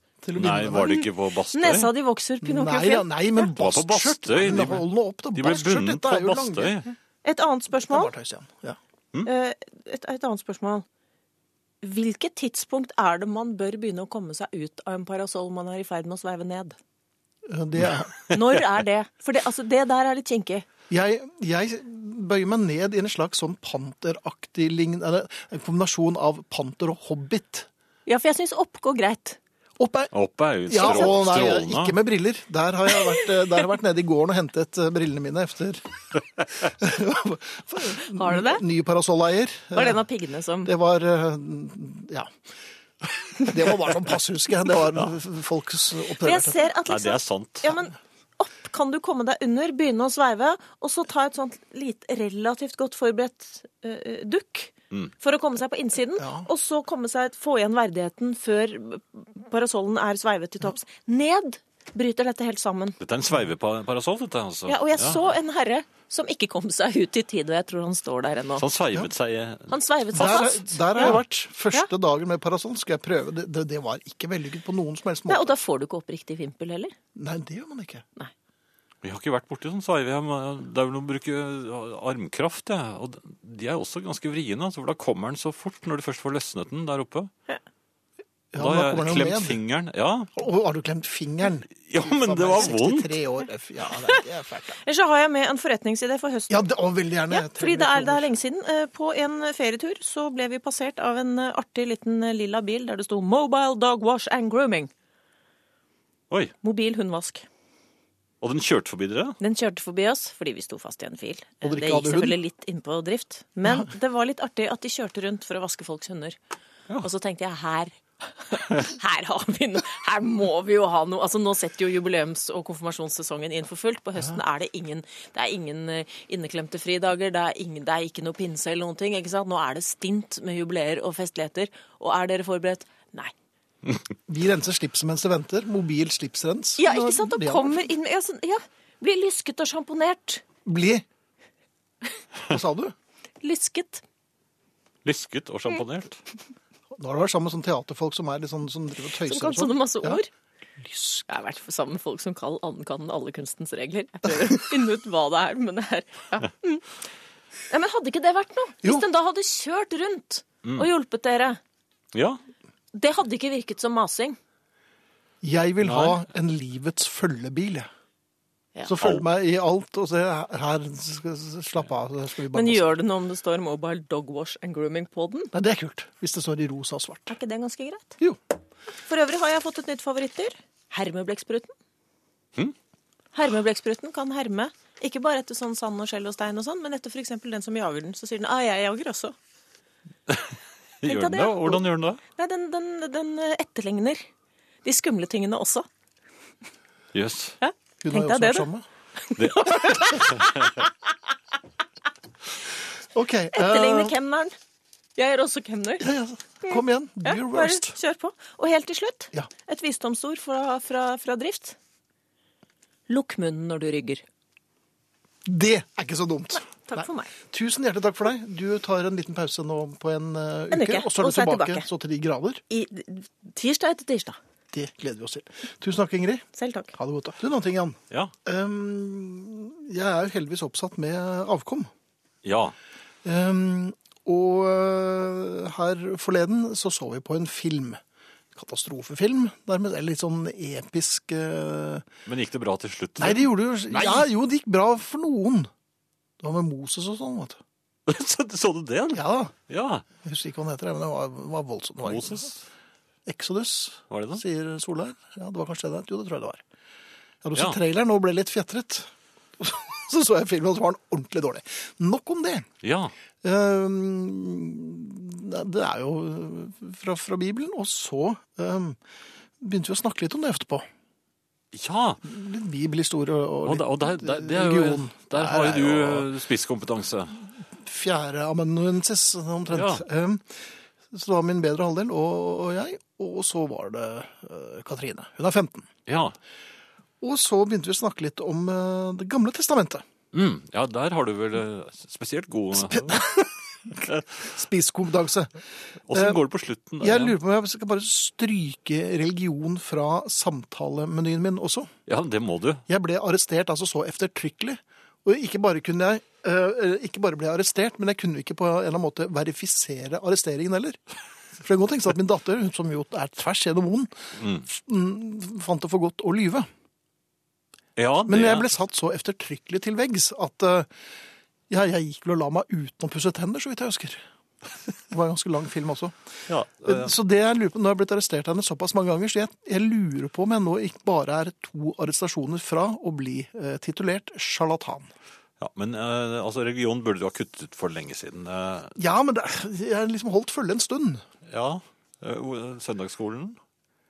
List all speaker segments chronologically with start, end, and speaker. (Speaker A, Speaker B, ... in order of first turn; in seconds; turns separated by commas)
Speaker A: 0.2-1.0, Speaker B: 0.3-1.9, Speaker C: 0.8-3.1, Speaker A: 2.4-6.9, Speaker B: 3.4-6.9, Speaker C: 7.2-8.1, Speaker A: 7.8-8.8, Speaker C: 9.2-10.8, Speaker C: 11.8-16.8, Speaker A: 17.4-18.2, Speaker C: 18.3-20.7, Speaker A: 20.9-27.7, Speaker C: 28.1-29.4, Speaker A: 29.8-30.1, Speaker B: 30.1-31.9, Speaker A: 30.7-35.8, Speaker A: 36.5-40.0, Speaker C: 38.1-38.6, Speaker C: 39.7-40.7, Speaker A: 40.6-42.3, Speaker A: 43.4-46.7, Speaker C: 46.2-63.0, Speaker B: 46.9-47.7, Speaker A: 56.2-56.5, Speaker B: 63.0-65.2, Speaker C: 64.7-68.6, Speaker B: 68.6-70.4, Speaker C: 69.7-71.9, Speaker A: 70.1-75.5, Speaker C: 75.3-76.9, Speaker A: 77.2-78.0, Speaker B: 79.0-87.3, Speaker A: 88.5-89.6, Speaker B: 88.6-90.3, Speaker A: 90.3-94.8, Speaker B: 91.9-93.2, Speaker C: 94.8-96.7, Speaker A: 96.5-98.3, Speaker C: 97.3-104.9, Speaker C: 106.6-107.5, Speaker B: 108.4-109.4, Speaker C: 109.4-116.4, Speaker A: 111.6-112.4, Speaker C: 117.0-133.3, Speaker A: 134.3-137.8, Speaker C: 136.8-140.4, Speaker A: 140.6-141.0, Speaker A: 142.5-142.9, Speaker C: 143.4-144.0, Speaker B: 145.0-146.2, Speaker A: 147.0-150.2, Speaker C: 149.2-150.3, Speaker A: 150.8-151.2, Speaker C: 151.3-156.9, Speaker C: 157.7-161.6, Speaker B: 162.1-162.4, Speaker C: 162.9-164.4, Speaker A: 165.4-167.9, Speaker B: 165.8-166.2, Speaker A: 168.9-173.0, Speaker C: 172.5-175.5, Speaker A: 175.5-177.4, Speaker C: 177.3-178.2, Speaker C: 179.1-181.7, Speaker C: 183.3-189.3, Speaker B: 190.3-192.2, Speaker C: 191.0-191.8, Speaker C: 192.4-194.2, Speaker C: 194.8-195.9, Speaker B: 197.1-197.6, Speaker C: 197.6-198.7, Speaker A: 198.0-198.8, Speaker C: 199.2-200.6, Speaker B: 199.4-200.9, Speaker A: 203.1-204.1, Speaker C: 203.5-204.5, Speaker C: 205.2-206.1, Speaker A: 206.0-207.9, Speaker C: 206.6-211.8, Speaker C: 213.1-214.2, Speaker A: 215.4-222.6, Speaker C: 216.8-217.3, Speaker C: 220.7-221.9, Speaker C: 222.7-224.4, Speaker A: 224.7-231.9, Speaker C: 226.6-226.9, Speaker B: 232.4-232.7, Speaker A: 233.2-238.0, Speaker A: 238.5-242.1, Speaker B: 242.2-244.3, Speaker A: 243.2-245.7, Speaker A: 246.4-247.6, Speaker B: 248.1-250.0, Speaker A: 249.1-249.5, Speaker A: 250.2-252.5, Speaker B: 252.0-252.6, Speaker A: 253.2-256.6, Speaker B: 254.1-254.4, Speaker A: 257.4-262.7, Speaker B: 262.8-263.1, Speaker A: 263.4-269.0, Speaker A: 269.6-270.9, Speaker B: 271.7-272.2, Speaker A: 272.2-276.3, Speaker B: 273.6-277.4, Speaker A: 277.8-285.9, Speaker B: 279.7-280.0, Speaker B: 286.1-286.4, Speaker A: 287.2-290.0, Speaker B: 290.3-293.2, Speaker A: 292.7-295.6, Speaker B: 296.1-297.4, Speaker A: 296.1-296.4, Speaker A: 297.0-301.9, Speaker B: 302.1-302.8, Speaker A: 302.9-311.0, Speaker A: 311.6-316.7, Speaker B: 314.4-314.6, Speaker B: 317.9-318.7, Speaker A: 318.3-320.9, Speaker A: 321.7-324.2, Speaker A: 325.1-335.1, Speaker B: 326.5-327.1, Speaker B: 335.6-338.9, Speaker A: 338.9-341.2, Speaker B: 341.4-343.6